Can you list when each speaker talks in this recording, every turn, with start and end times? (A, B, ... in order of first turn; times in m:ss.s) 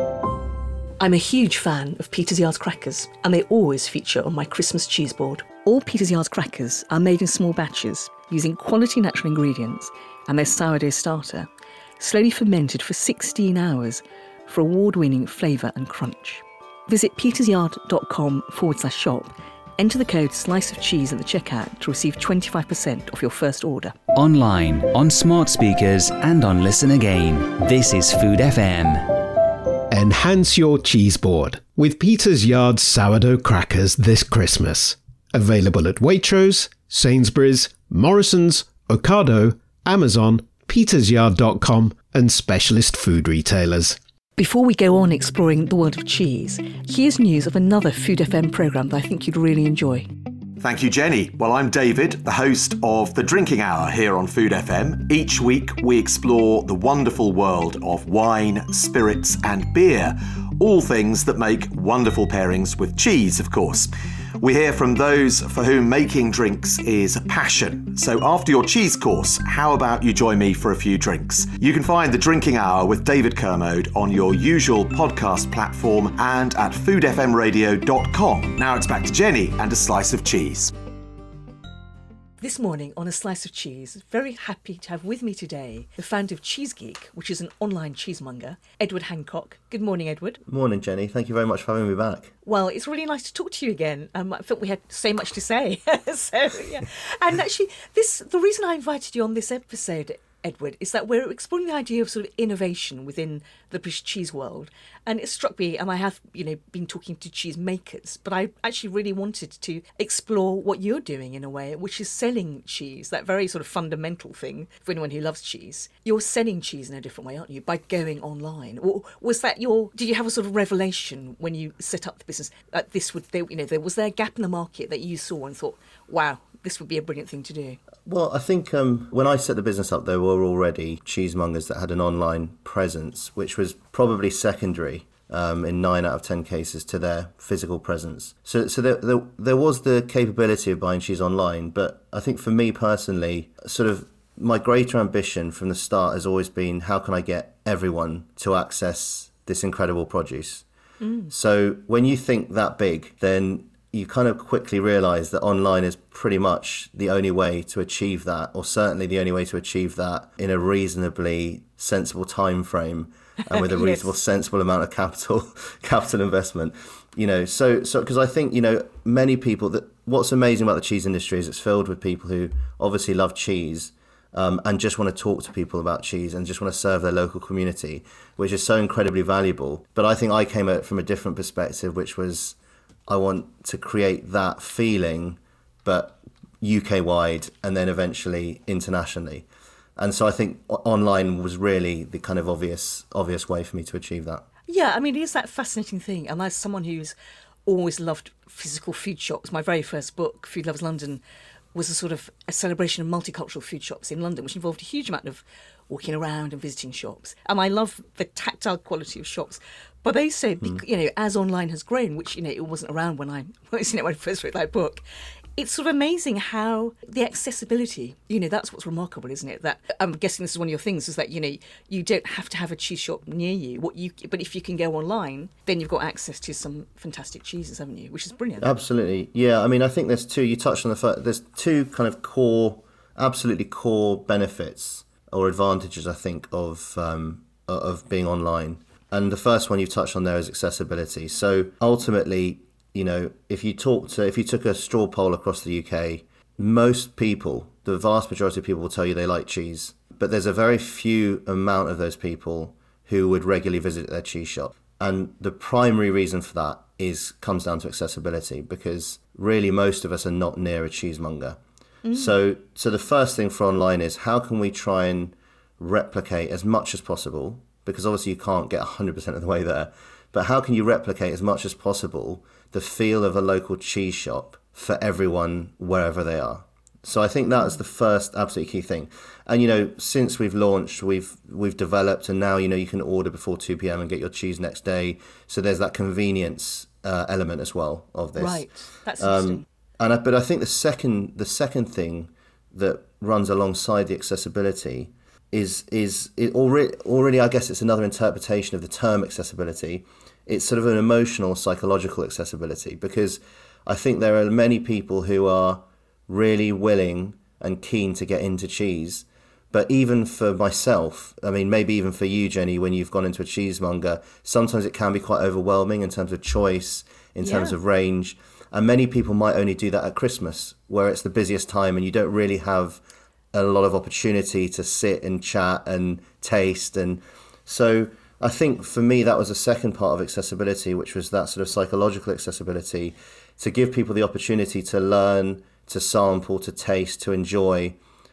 0:01.0-0:11.5 A
0:12.0-0:24.0 A
0:24.1-0:29.1 B
0:29.9-0:44.0 C
0:44.4-0:50.1 A
0:50.6-1:20.7 D
1:22.4-1:30.4 A
1:30.5-1:32.3 E
1:32.4-2:07.8 A
2:08.0-2:30.6 E
2:31.0-2:31.3 A
2:31.3-3:14.4 E
2:43.5-2:44.1 A
3:14.7-3:21.2 A
3:21.7-3:35.0 A
3:35.6-3:48.7 A
3:48.6-4:21.6 E
4:22.0-4:22.4 A
4:22.1-5:23.0 E
4:48.4-4:49.6 A
5:17.4-5:17.8 A
5:23.5-5:38.0 E